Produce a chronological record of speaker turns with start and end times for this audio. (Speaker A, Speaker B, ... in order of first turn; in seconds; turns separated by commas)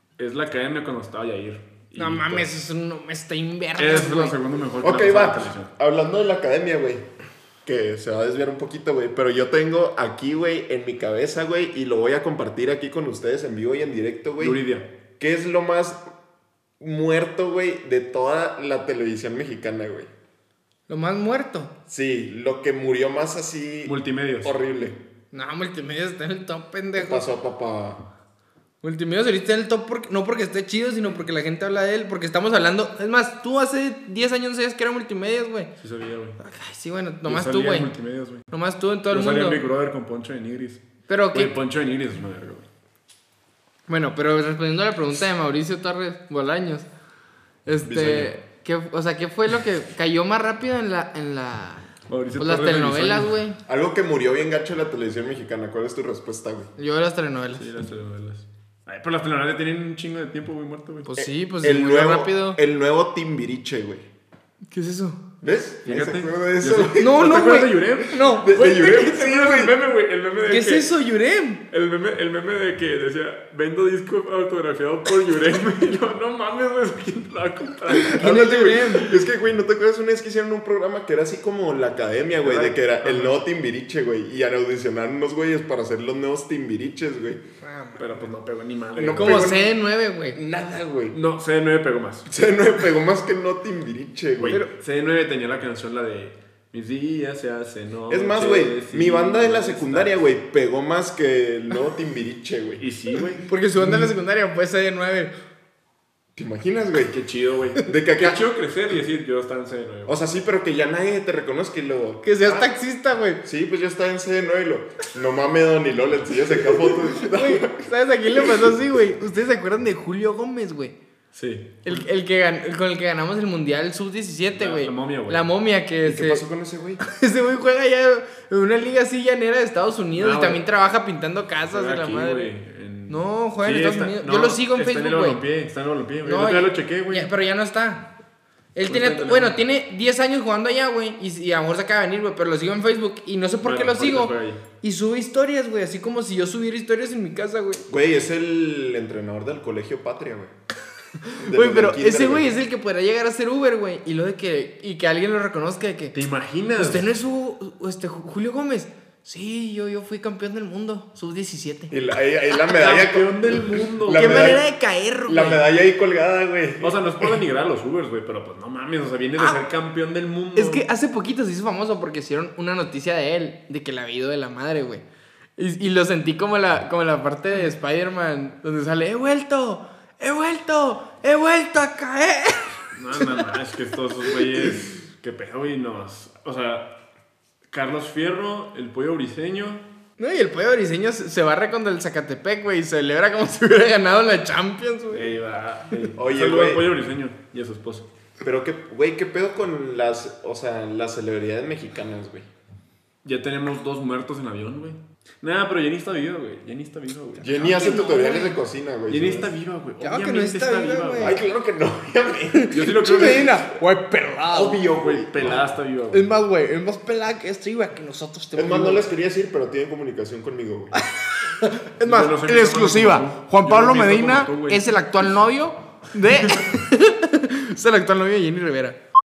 Speaker A: 0.2-2.5, Speaker B: 2.0-4.4, Speaker A: 3.8-5.7, Speaker C: 4.8-7.1, Speaker C: 7.6-14.6, Speaker A: 14.4-14.9, Speaker C: 15.2-16.1, Speaker C: 16.8-20.1, Speaker B: 20.9-21.7, Speaker C: 21.9-25.0, Speaker A: 23.9-24.6, Speaker B: 25.3-27.2, Speaker C: 27.0-28.1, Speaker B: 28.8-35.7, Speaker A: 35.8-36.4, Speaker B: 36.4-37.9, Speaker A: 37.2-38.5, Speaker B: 38.5-39.6, Speaker A: 39.1-42.6, Speaker B: 41.1-41.5, Speaker B: 43.9-46.9, Speaker B: 47.7-53.6, Speaker C: 47.8-48.3, Speaker A: 52.1-53.3, Speaker C: 53.7-56.7, Speaker B: 56.8-57.7, Speaker A: 57.6-61.1, Speaker B: 61.1-62.6, Speaker C: 61.2-64.1, Speaker B: 64.7-65.2, Speaker C: 65.4-67.4, Speaker A: 65.9-70.9, Speaker B: 67.0-68.5, Speaker C: 68.3-69.8, Speaker B: 70.5-71.6, Speaker A: 71.7-78.8, Speaker B: 78.1-79.1, Speaker C: 78.2-87.4, Speaker A: 82.4-83.4, Speaker B: 87.6-88.2, Speaker A: 88.0-89.6, Speaker C: 89.0-89.7, Speaker B: 89.2-90.4, Speaker C: 90.3-91.2, Speaker A: 91.1-92.3, Speaker C: 92.3-94.6, Speaker A: 94.4-100.3, Speaker C: 98.1-102.8, Speaker A: 102.8-103.4, Speaker B: 103.4-105.3, Speaker C: 106.3-107.2, Speaker A: 107.1-110.2, Speaker C: 107.8-108.4, Speaker C: 110.1-112.7, Speaker B: 112.2-113.4, Speaker C: 113.4-118.7, Speaker B: 117.2-121.0, Speaker A: 121.3-122.0, Speaker B: 121.8-126.4, Speaker A: 124.5-125.5, Speaker C: 126.0-127.0, Speaker B: 127.0-132.5, Speaker A: 130.2-130.6, Speaker A: 131.7-137.3, Speaker B: 133.1-135.4, Speaker B: 136.2-138.1, Speaker B: 138.8-147.9, Speaker A: 138.9-139.6, Speaker A: 143.6-144.6, Speaker C: 147.9-150.5, Speaker B: 151.3-156.2, Speaker C: 151.4-152.5, Speaker A: 156.1-157.1, Speaker B: 156.8-161.9, Speaker C: 161.9-164.6, Speaker A: 162.7-164.6, Speaker B: 164.1-165.6, Speaker C: 165.3-167.4, Speaker A: 166.8-170.8, Speaker B: 169.4-169.6, Speaker B: 170.6-175.0, Speaker B: 175.6-183.2, Speaker A: 182.9-186.9, Speaker A: 187.7-189.8, Speaker B: 190.2-195.3, Speaker A: 195.1-198.1, Speaker C: 196.2-196.9, Speaker C: 198.4-202.5, Speaker A: 203.2-208.1, Speaker C: 207.4-209.5, Speaker B: 207.6-208.6, Speaker A: 209.1-211.4, Speaker B: 210.0-211.4, Speaker C: 211.2-213.4, Speaker B: 212.5-214.8, Speaker A: 212.7-213.6, Speaker C: 214.5-215.7, Speaker A: 214.9-216.3, Speaker B: 216.1-219.1, Speaker C: 218.6-220.9, Speaker B: 220.9-229.0, Speaker A: 222.0-224.9